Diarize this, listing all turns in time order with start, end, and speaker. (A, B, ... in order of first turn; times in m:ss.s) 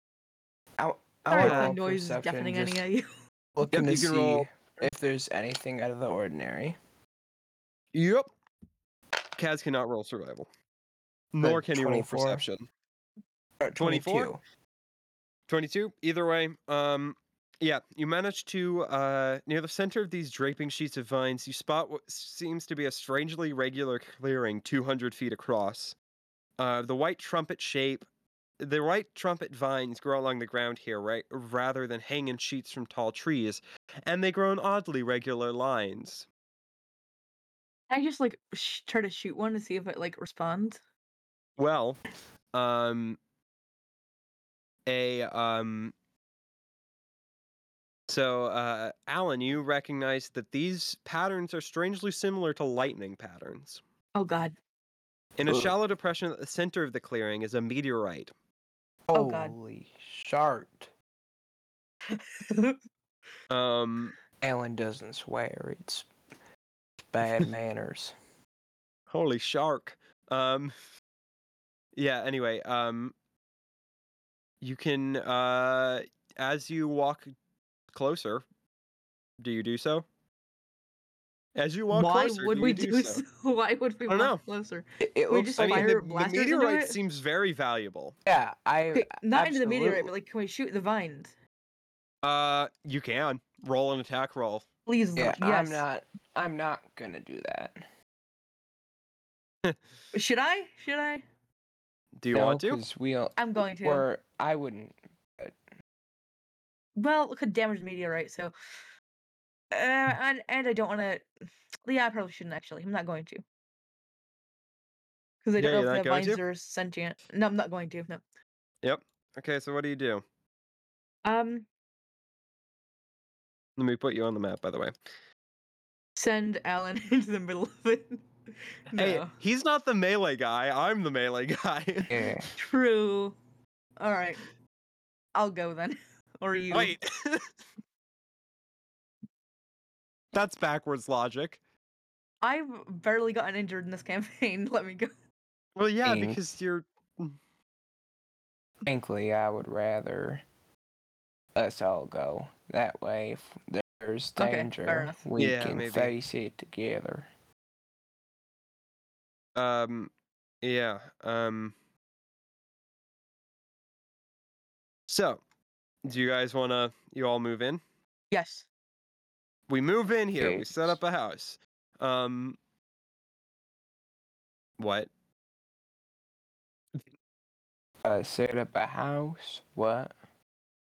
0:00.8-0:02.8 A
0:01.3-0:03.1 B
0:01.4-0:01.7 C
0:03.5-0:06.8 A
0:03.7-0:04.4 C
0:07.9-0:08.3 C
0:09.4-0:10.5 C
0:11.3-0:12.7 C
0:11.4-0:12.4 A
0:13.6-0:14.4 A
0:13.8-0:14.3 C
0:15.5-0:26.0 C
0:26.6-0:28.0 C
0:28.6-0:36.2 C
0:37.9-0:40.8 B
0:41.6-0:42.0 C
0:42.5-0:43.2 C
0:44.8-0:45.9 C
0:48.1-0:53.8 C
0:54.2-0:54.6 B
0:55.4-0:58.3 C
0:55.5-0:55.7 A
0:59.1-1:00.9 A
0:59.1-0:59.5 B
1:02.1-1:02.8 B
1:03.5-1:04.2 C
1:04.4-1:06.1 A
1:07.1-1:08.1 A
1:09.1-1:10.7 C
1:11.9-1:13.1 C
1:14.6-1:17.3 C
1:17.9-1:18.4 C
1:19.4-1:20.0 C
1:21.5-1:23.2 C
1:21.9-1:27.0 B
1:24.1-1:24.4 C
1:25.0-1:25.9 A
1:25.5-1:28.2 C
1:28.2-1:30.1 A
1:28.9-1:31.3 B
1:32.2-1:34.6 C
1:34.8-1:35.8 B
1:35.2-1:37.8 A
1:40.1-1:41.2 B
1:42.2-1:42.8 C
1:42.3-1:45.5 A
1:43.4-1:44.0 B
1:47.0-1:48.5 B
1:49.7-1:51.3 B
1:51.8-1:53.4 B
1:55.4-1:58.2 B
1:55.6-1:56.4 C
1:58.8-2:00.2 C
2:01.2-2:01.7 B
2:03.8-2:04.9 C
2:06.2-2:08.2 B
2:08.9-2:09.3 B
2:08.9-2:12.1 C
2:12.1-2:12.5 A
2:12.6-2:13.4 B
2:14.0-2:14.4 B
2:15.3-2:16.9 B
2:16.7-2:17.5 C
2:20.3-2:21.6 C
2:22.4-2:25.1 B
2:25.8-2:27.4 C
2:26.0-2:26.4 A
2:28.8-2:30.4 A
2:31.5-2:37.3 A
2:34.4-2:35.2 B
2:35.4-2:36.1 C
2:39.6-2:40.1 C
2:40.6-2:41.7 C
2:45.1-2:45.4 C
2:46.0-2:47.8 C
2:48.3-2:48.7 B
2:49.7-2:52.6 C
2:50.4-2:51.0 A
2:54.8-2:55.1 C
2:58.0-3:00.1 A